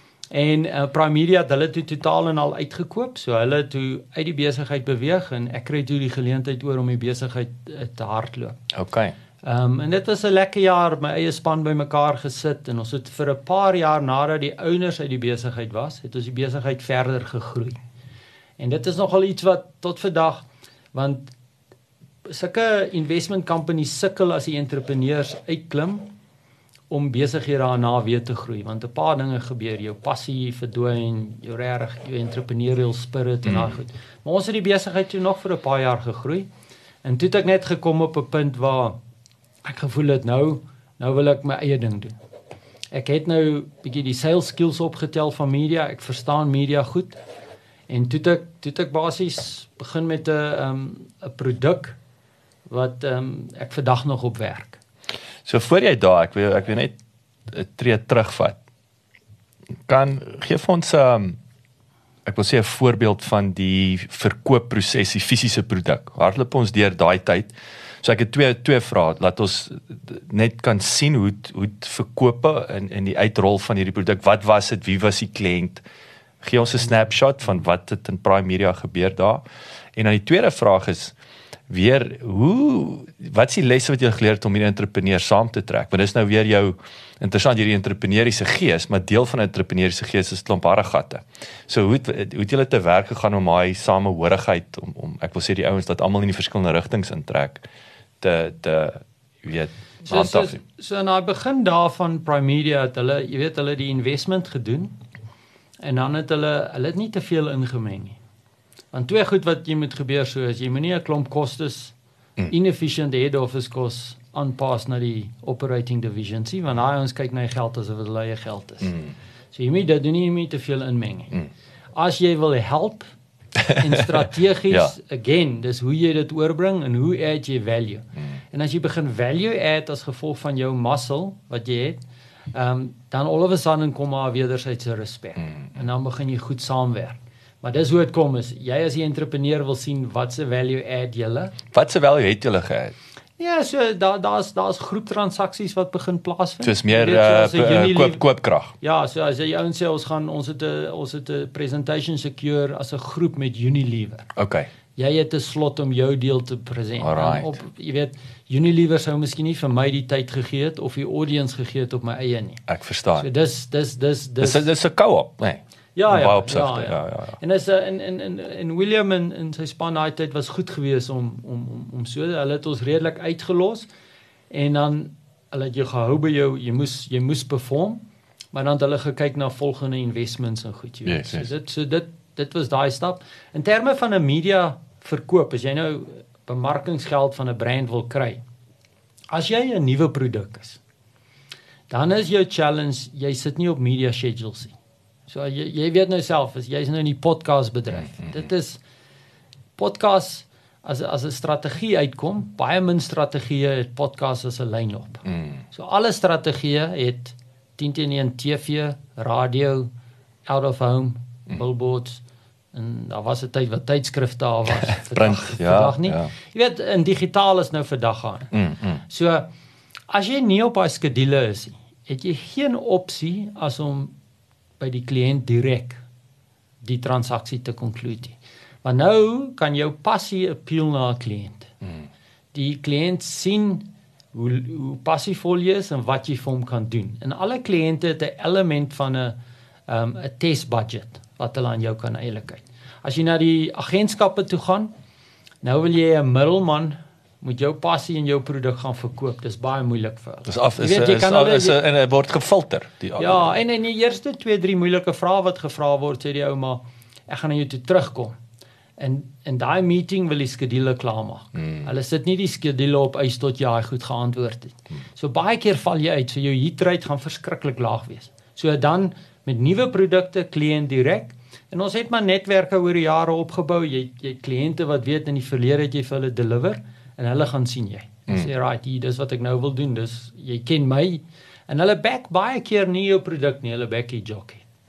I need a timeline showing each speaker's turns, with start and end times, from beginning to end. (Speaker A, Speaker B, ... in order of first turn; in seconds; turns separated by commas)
Speaker A: 0.3-8.6, Speaker B: 8.7-9.1, Speaker A: 9.4-17.8, Speaker A: 18.6-21.3, Speaker A: 22.2-26.1, Speaker A: 26.9-36.5, Speaker B: 33.4-33.8, Speaker A: 37.0-39.0, Speaker A: 39.6-42.1, Speaker A: 42.9-47.2, Speaker A: 47.9-52.0, Speaker A: 52.7-54.8, Speaker B: 55.4-57.0, Speaker B: 57.5-58.6, Speaker B: 59.9-61.4, Speaker B: 62.2-75.8, Speaker B: 76.4-79.4, Speaker B: 80.0-81.1, Speaker B: 81.7-97.6, Speaker B: 98.2-100.6, Speaker A: 100.0-104.9, Speaker A: 105.8-108.2, Speaker A: 108.9-111.9, Speaker A: 112.5-119.0, Speaker B: 118.8-119.1, Speaker A: 119.5-121.3, Speaker A: 121.9-123.1, Speaker A: 123.7-132.0, Speaker A: 132.5-141.5, Speaker B: 141.7-142.9, Speaker A: 143.4-148.2, Speaker B: 146.6-148.7, Speaker A: 148.8-154.3, Speaker B: 154.3-154.7, Speaker A: 154.9-162.6, Speaker B: 157.0-157.5, Speaker B: 162.7-163.3, Speaker A: 163.2-164.7, Speaker B: 164.4-167.4, Speaker A: 165.9-173.9, Speaker A: 174.5-178.0, Speaker A: 178.5-188.4, Speaker B: 181.0-181.5, Speaker A: 189.3-190.8, Speaker A: 191.9-194.7, Speaker A: 195.3-198.8, Speaker A: 199.8-209.9, Speaker B: 205.3-205.6, Speaker A: 210.4-212.2, Speaker A: 212.7-218.5, Speaker B: 214.9-216.3, Speaker B: 218.5-219.0, Speaker A: 219.0-219.5, Speaker A: 220.1-224.1, Speaker A: 224.8-226.0, Speaker A: 226.8-231.7, Speaker A: 232.5-239.3, Speaker A: 239.9-244.9, Speaker A: 245.6-251.8, Speaker B: 250.5-253.5, Speaker A: 253.2-258.4, Speaker A: 259.0-284.6